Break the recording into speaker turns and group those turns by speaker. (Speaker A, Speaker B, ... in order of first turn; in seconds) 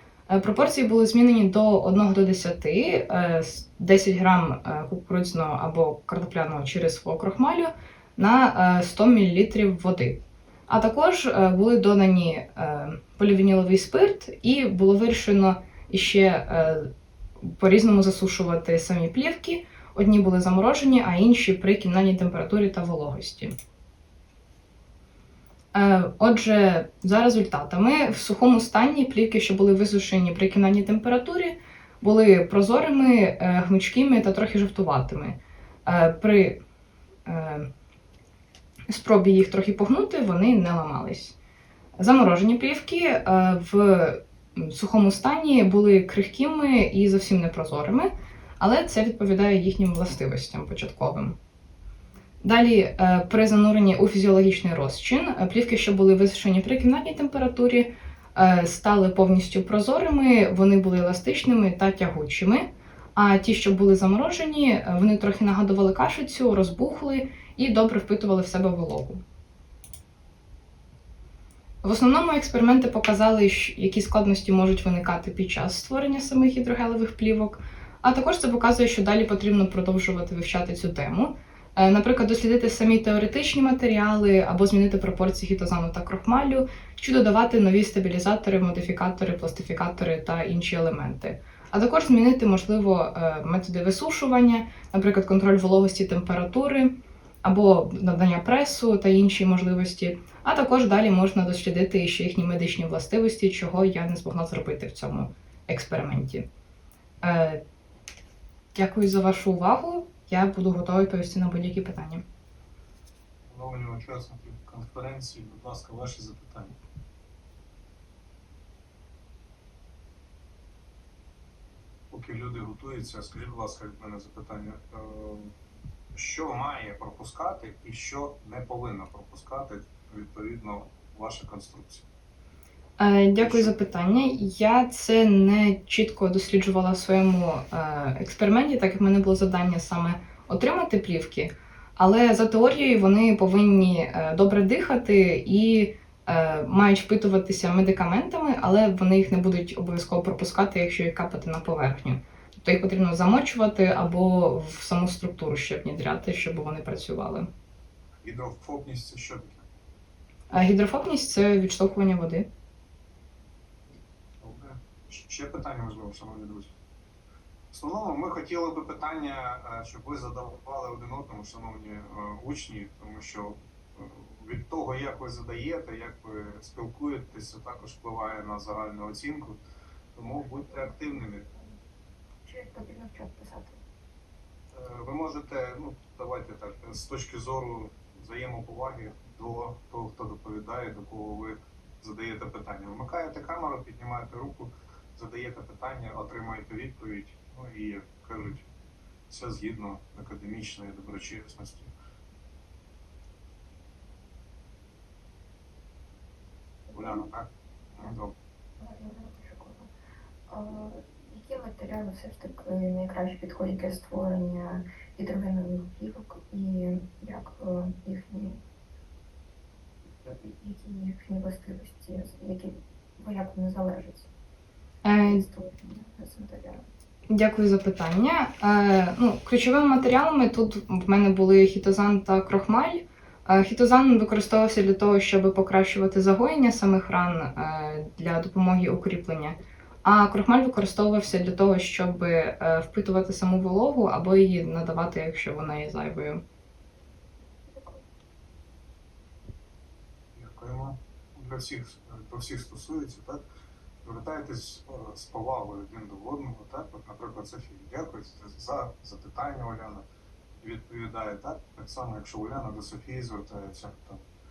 Speaker A: 0.3-16.9, 17.4-23.5, 25.7-36.6, 37.2-37.7, 38.9-41.4, 42.0-51.4, 52.4-69.2, 71.8-106.5, 107.2-107.6, 108.7-112.2, 133.0-157.5, 160.5-162.5, 225.0-225.4, 227.3-246.4
Speaker B: 113.5-116.8, 122.1-125.5, 126.1-132.0, 133.4-133.7, 158.2-159.7, 164.4-166.7, 167.7-179.6, 180.1-181.5, 184.7-198.7, 199.3-201.9, 206.9-208.3, 250.3-253.4, 254.0-260.1, 260.6-264.2
Speaker C: 180.5-181.6, 182.4-183.8, 206.9-207.3, 208.8-209.9, 210.5-218.6, 220.1-224.3, 225.2-226.8, 247.6-248.1